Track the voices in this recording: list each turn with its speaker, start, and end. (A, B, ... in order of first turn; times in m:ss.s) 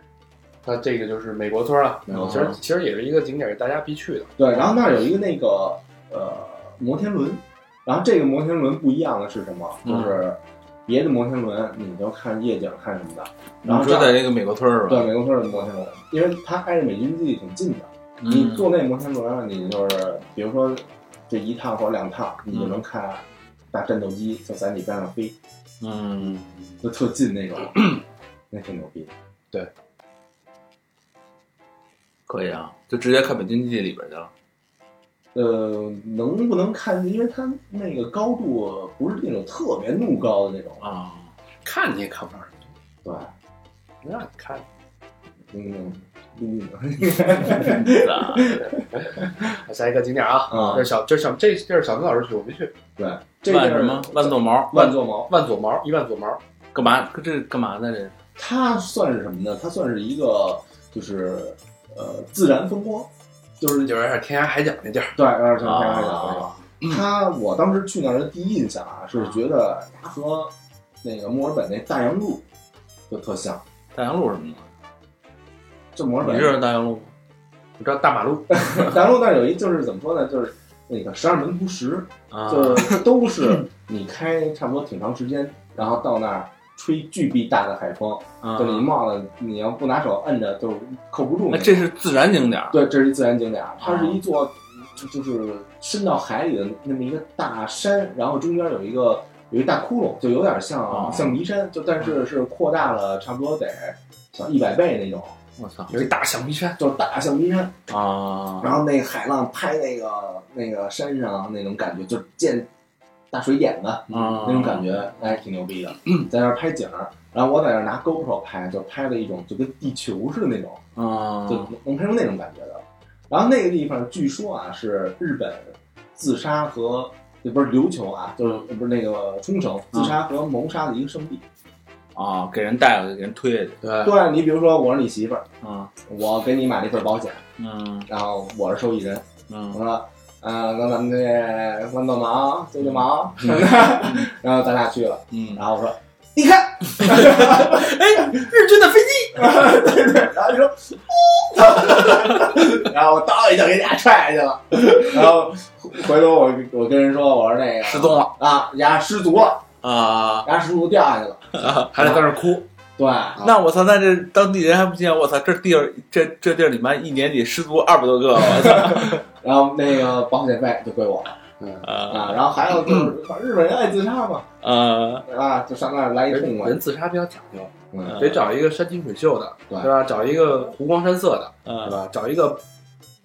0:00.6-0:04.3 A
0:02.1-0:02.6 B
0:02.1-0:02.6 C
0:04.4-0:14.3 B
0:09.8-0:10.2 C
0:13.6-0:15.1 C
0:14.9-0:25.4 B
0:18.2-0:18.7 C
0:22.5-0:22.8 C
0:25.8-0:26.5 C
0:26.2-0:26.5 A
0:26.8-0:27.9 B
0:28.5-0:29.1 B
0:32.3-0:34.3 C
0:35.3-0:40.8 B
0:40.8-0:41.3 C
0:41.6-0:42.7 A
0:43.0-0:43.3 B
0:44.0-0:44.6 A
0:45.5-0:49.5 B
0:47.5-0:48.6 C
0:48.9-0:52.7 A
0:50.5-0:50.9 B
0:50.5-0:50.8 C
0:53.0-0:55.3 B
0:53.5-0:54.8 C
0:54.7-0:56.4 A
0:56.7-0:58.2 C
0:58.4-1:03.9 B
1:03.8-1:05.2 A
1:05.2-1:12.4 B
1:05.6-1:06.6 C
1:13.1-1:13.6 B
1:13.9-1:14.7 C
1:16.0-1:16.6 B
1:16.2-1:17.1 C
1:17.8-1:18.9 A
1:18.5-1:31.8 B
1:22.3-1:23.1 C
1:28.4-1:28.9 C
1:31.5-1:32.8 C
1:32.7-1:45.4 B
1:33.8-1:34.2 C
1:40.9-1:41.4 C
1:45.6-1:46.0 C
1:45.9-1:46.8 A
1:46.8-1:47.9 B
1:47.9-1:48.8 C
1:48.6-1:52.7 B
1:53.3-2:00.8 B
1:54.1-1:55.1 C
2:01.0-2:01.7 C
2:01.5-2:11.4 B
2:12.2-2:13.8 C
2:13.8-2:14.1 A
2:14.0-2:15.5 B
2:15.6-2:15.9 C
2:16.0-2:17.5 B
2:17.6-2:18.1 C
2:18.1-2:28.5 B
2:19.5-2:19.8 C
2:25.3-2:25.6 C
2:27.1-2:29.5 A
2:29.3-2:39.7 B
2:37.8-2:38.3 C
2:39.8-2:40.5 C
2:40.4-2:42.2 B
2:41.6-2:42.2 C
2:41.9-2:42.7 A
2:43.0-2:43.5 B
2:43.4-2:49.2 C
2:48.6-2:51.4 B
2:51.6-2:51.9 A
2:51.8-2:52.4 C
2:52.1-2:54.6 B
2:54.6-2:55.3 C
2:55.2-2:56.8 B
2:56.3-3:02.6 A
2:57.9-2:58.2 B
2:58.0-2:58.5 C
3:01.6-3:02.0 C